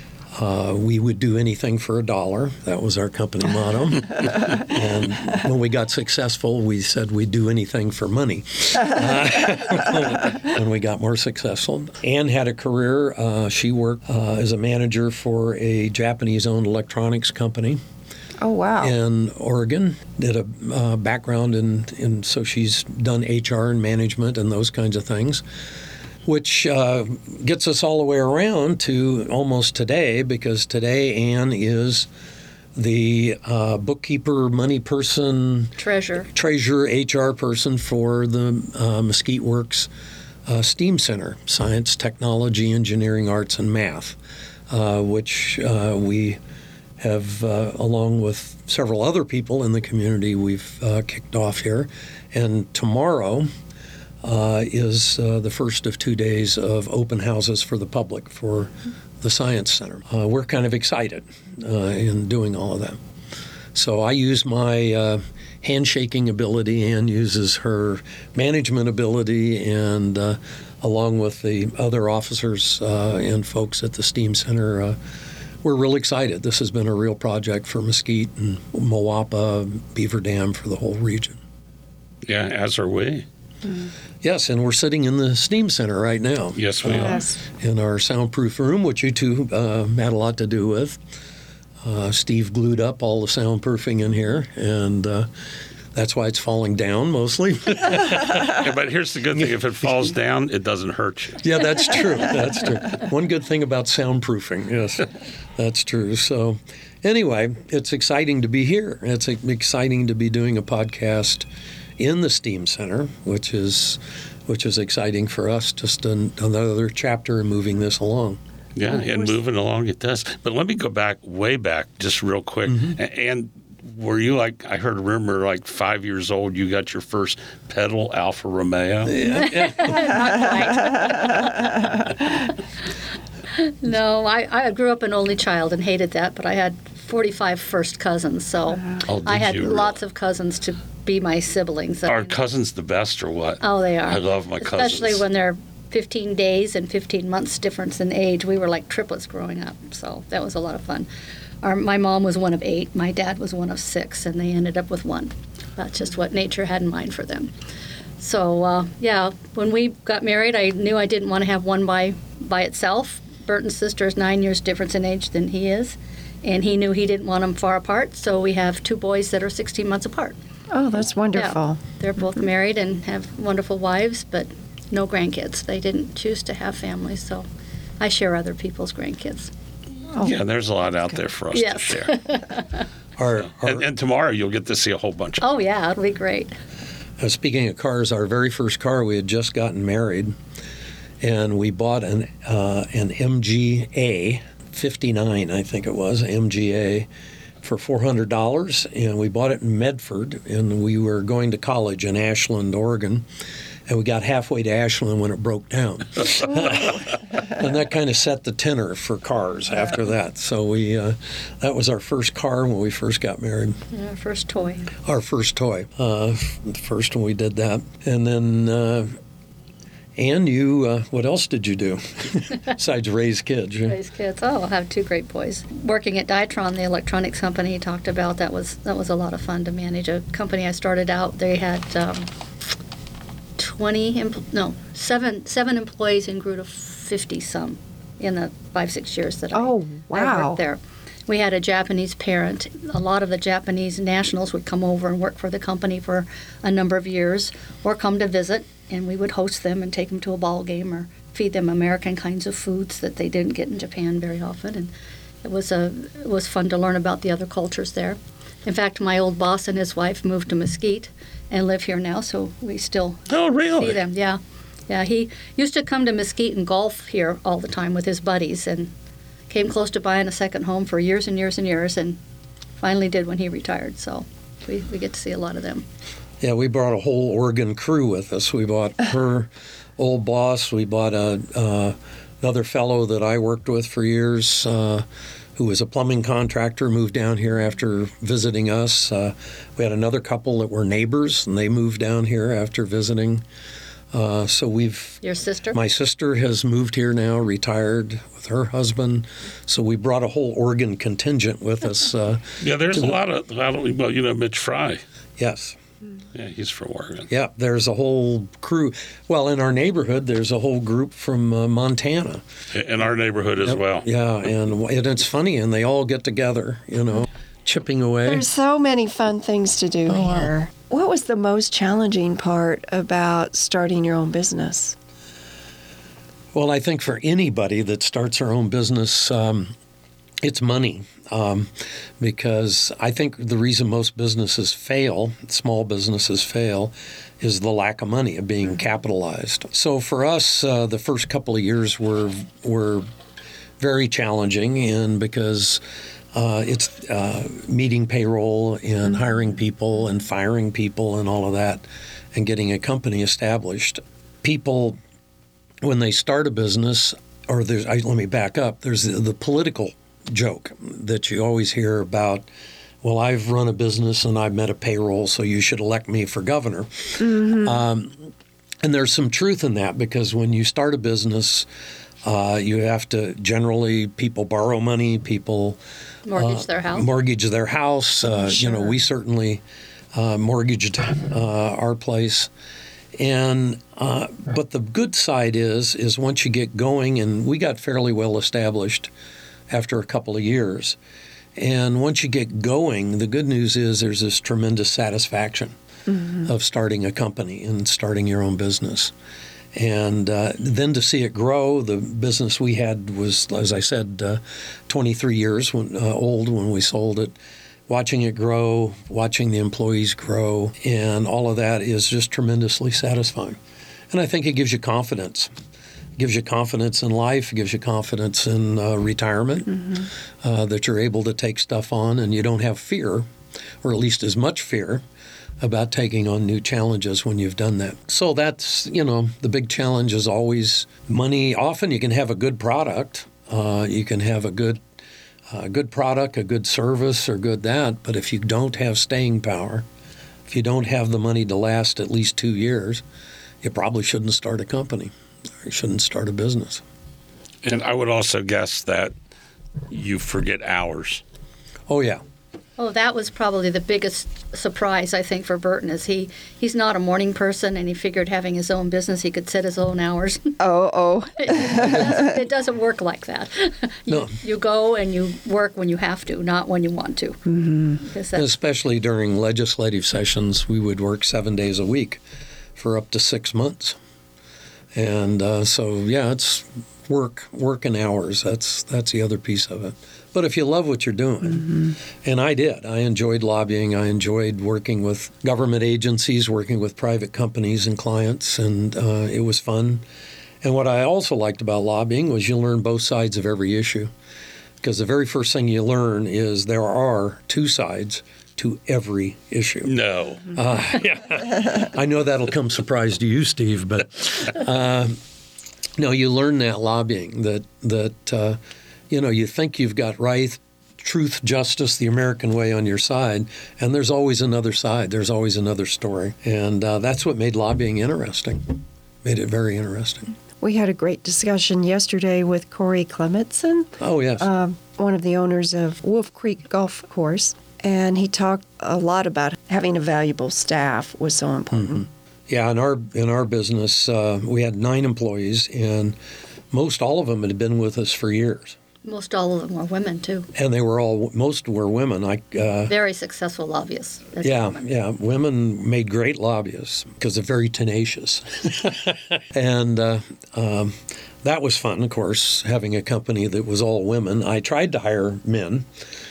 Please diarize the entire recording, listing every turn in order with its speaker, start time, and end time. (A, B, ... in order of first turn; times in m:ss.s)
0:00.3-0:17.8 A
0:18.4-0:18.9 B
0:18.8-0:25.4 A
0:26.2-0:32.1 A
0:32.7-0:35.7 A
0:35.8-0:36.3 C
0:36.3-0:39.9 A
0:40.4-0:44.2 A
0:44.7-0:46.4 A
0:47.0-0:53.5 A
0:54.2-1:03.0 A
1:03.7-1:15.0 A
1:15.6-1:21.4 A
1:22.3-1:23.2 D
1:24.2-1:31.0 A
1:26.6-1:27.2 D
1:26.9-1:27.4 B
1:31.8-1:35.3 A
1:35.9-1:38.6 A
1:38.4-1:41.4 D
1:41.4-1:51.5 A
1:52.0-1:58.4 A
1:58.8-2:09.2 D
1:58.9-1:59.3 B
2:02.7-2:03.0 A
2:09.0-2:10.0 A
2:09.2-2:11.7 C
2:13.5-2:22.3 C
2:19.1-2:19.9 D
2:22.0-2:25.2 D
2:23.6-2:31.1 C
2:31.6-2:37.5 C
2:38.2-2:50.4 C
2:50.7-2:51.8 B
2:51.3-2:57.4 C
2:58.0-2:59.5 C
3:00.2-3:02.1 D
3:01.5-3:02.8 C
3:03.2-3:03.9 A
3:03.6-3:05.4 D
3:05.4-3:06.5 C
3:07.2-3:10.4 A
3:11.2-3:17.1 A
3:17.6-3:23.3 A
3:23.9-3:33.8 A
3:33.9-3:34.9 C
3:35.0-3:39.1 A
3:40.2-3:44.0 A
3:43.8-3:52.3 C
3:53.6-4:14.9 C
3:59.5-4:00.6 B
4:15.4-4:28.9 C
4:23.3-4:24.0 D
4:29.5-4:32.2 C
4:32.8-4:35.8 C
4:36.4-4:45.0 A
4:45.6-4:53.4 A
4:54.1-5:03.2 A
4:55.2-4:55.8 C
5:02.6-5:05.0 D
5:05.4-5:05.8 A
5:06.3-5:07.3 D
5:07.3-5:12.4 A
5:12.7-5:14.1 D
5:13.6-5:18.5 A
5:18.2-5:25.0 B
5:20.1-5:20.5 A
5:26.5-5:29.7 A
5:30.4-5:43.0 A
5:43.8-5:45.8 A
5:46.3-5:55.0 A
5:55.8-6:02.5 A
6:03.0-6:08.3 A
6:07.2-6:07.7 B
6:08.8-6:11.7 A
6:12.2-6:15.8 A
6:16.2-6:17.1 C
6:16.3-6:19.6 A
6:20.1-6:22.5 A
6:23.2-6:29.1 A
6:29.7-6:31.0 A
6:31.6-6:35.7 A
6:36.4-6:39.1 A
6:39.7-6:47.3 A
6:47.9-6:53.6 A
6:54.1-6:55.5 A
6:56.2-7:03.3 A
7:03.8-7:05.0 A
7:05.6-7:14.8 A
7:15.5-7:19.8 A
7:20.5-7:23.0 A
7:23.6-7:25.1 A
7:25.6-7:26.8 A
7:27.6-7:29.1 D
7:29.9-7:31.2 D
7:31.9-7:32.2 A
7:32.8-7:40.6 C
7:40.6-7:42.4 B
7:41.4-7:47.4 C
7:44.1-7:44.3 A
7:47.5-7:48.0 B
7:48.0-7:48.4 C
7:48.3-7:52.2 A
7:52.8-7:54.0 A
7:54.9-8:10.0 A
8:10.6-8:14.1 A
8:14.8-8:19.9 A
8:19.8-8:20.5 D
8:20.5-8:25.2 A
8:26.0-8:28.6 A
8:29.1-8:40.3 A
8:40.6-8:52.0 B
8:44.0-8:44.5 A
8:51.8-8:56.2 A
8:56.7-8:58.8 A
8:59.0-9:00.5 C
9:00.5-9:02.9 A
9:02.9-9:04.8 C
9:04.4-9:15.9 A